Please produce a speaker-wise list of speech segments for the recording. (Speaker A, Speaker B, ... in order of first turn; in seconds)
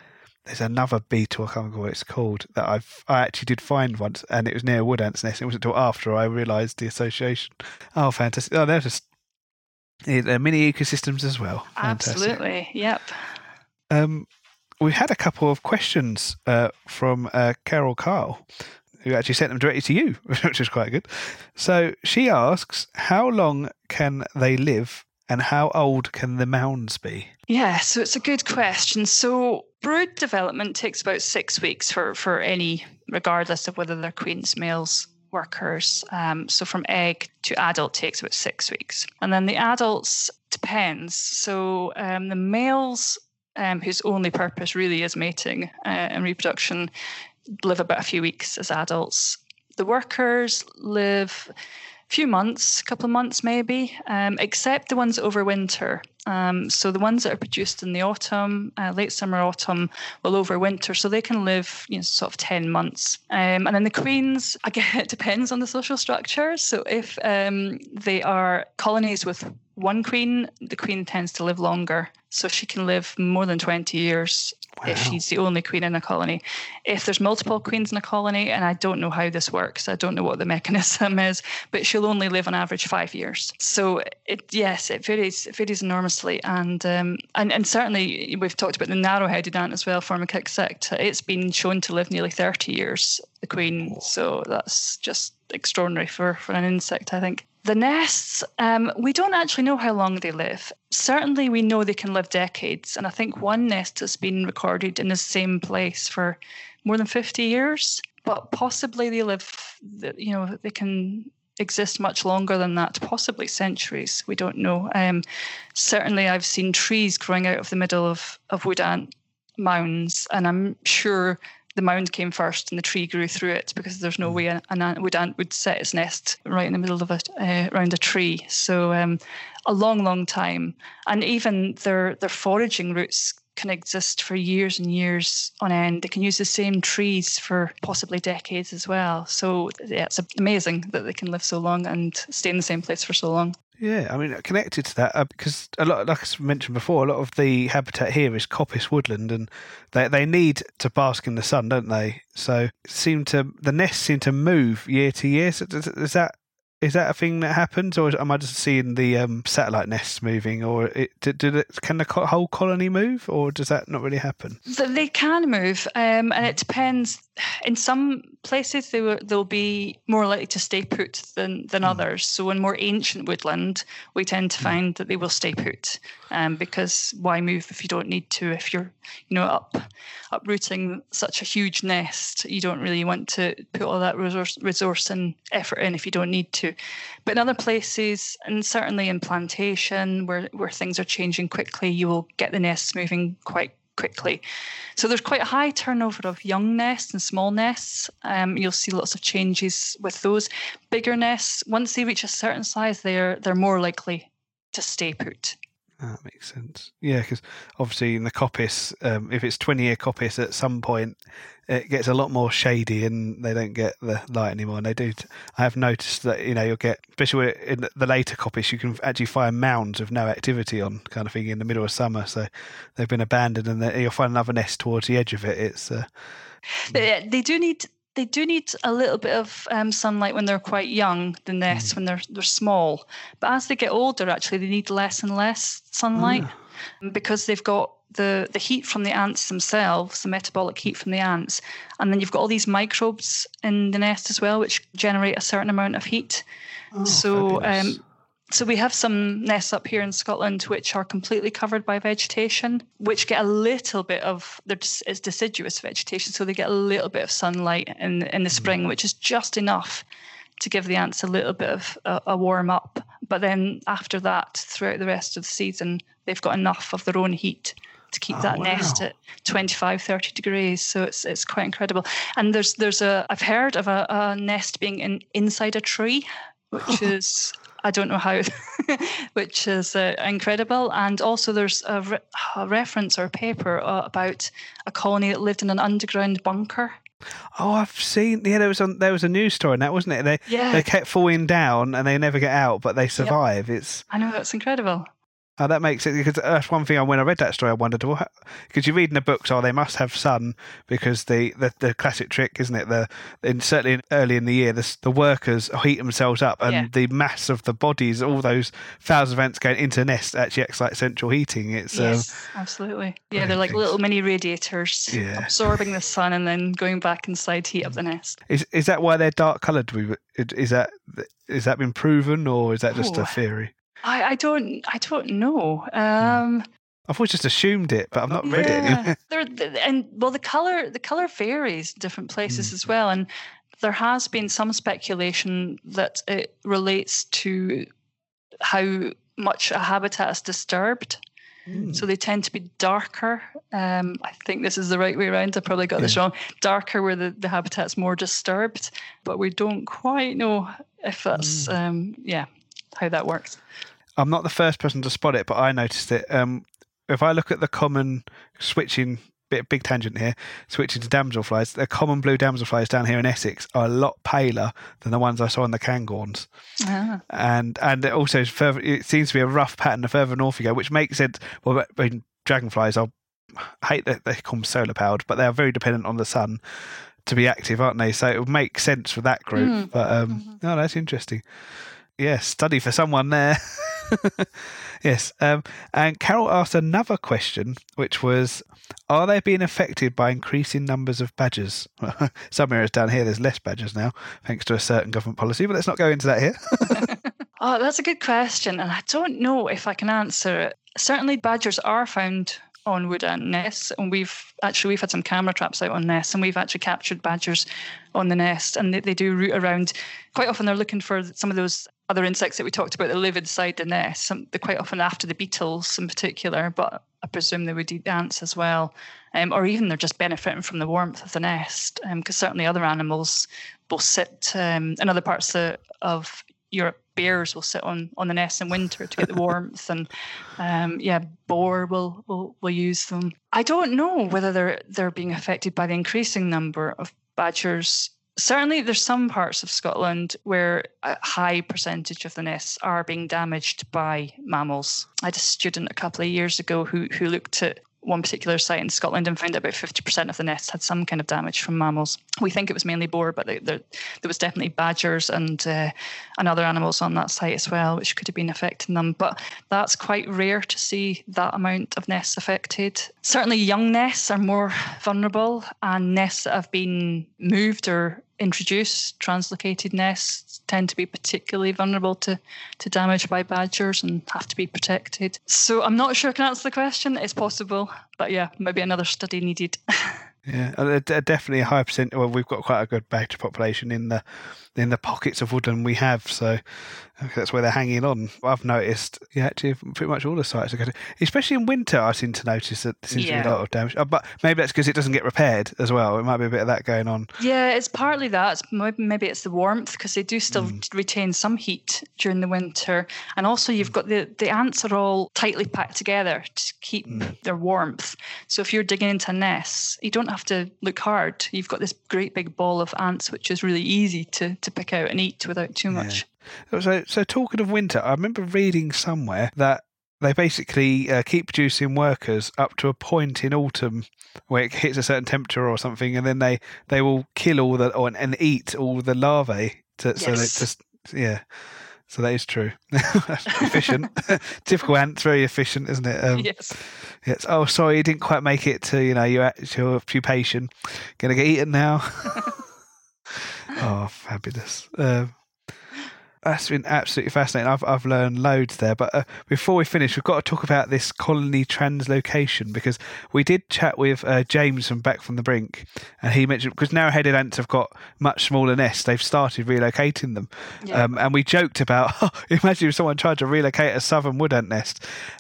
Speaker A: 0.5-9.1, 10.1-12.4, 13.9-14.3, 14.8-27.3, 74.8-75.2, 143.8-164.6, 206.0-226.1, 236.2-236.5, 246.9-248.0, 268.3-269.0, 287.6-294.1, 295.6-312.3, 313.4-313.8, 315.1-315.8, 318.5-323.7, 327.1-329.2, 341.7-342.0, 351.4-351.7, 354.2-366.5, 367.3-376.6, 377.2-381.4, 382.2-397.1, 480.5-484.2, 484.7-497.3, 500.5-500.8, 515.9-531.4, 532.1-542.6, 543.7-545.3, 546.4-565.0
Speaker B: 11.8-13.3, 27.5-46.9, 47.6-51.5, 52.1-115.2, 115.8-143.6, 164.7-186.8, 187.3-194.4, 195.0-205.6, 226.8-236.5, 237.0-246.4, 247.0-260.1, 260.6-287.0, 290.5-290.9, 294.1-295.1, 311.9-318.4, 322.9-323.4, 324.0-326.6, 328.3-333.3, 333.8-337.9, 338.6-341.2, 341.8-353.6, 366.8-367.2, 379.6-380.6, 396.9-480.3, 493.1-493.6, 497.4-516.2, 530.2-530.7, 533.5-534.1, 536.3-536.8, 560.8-561.2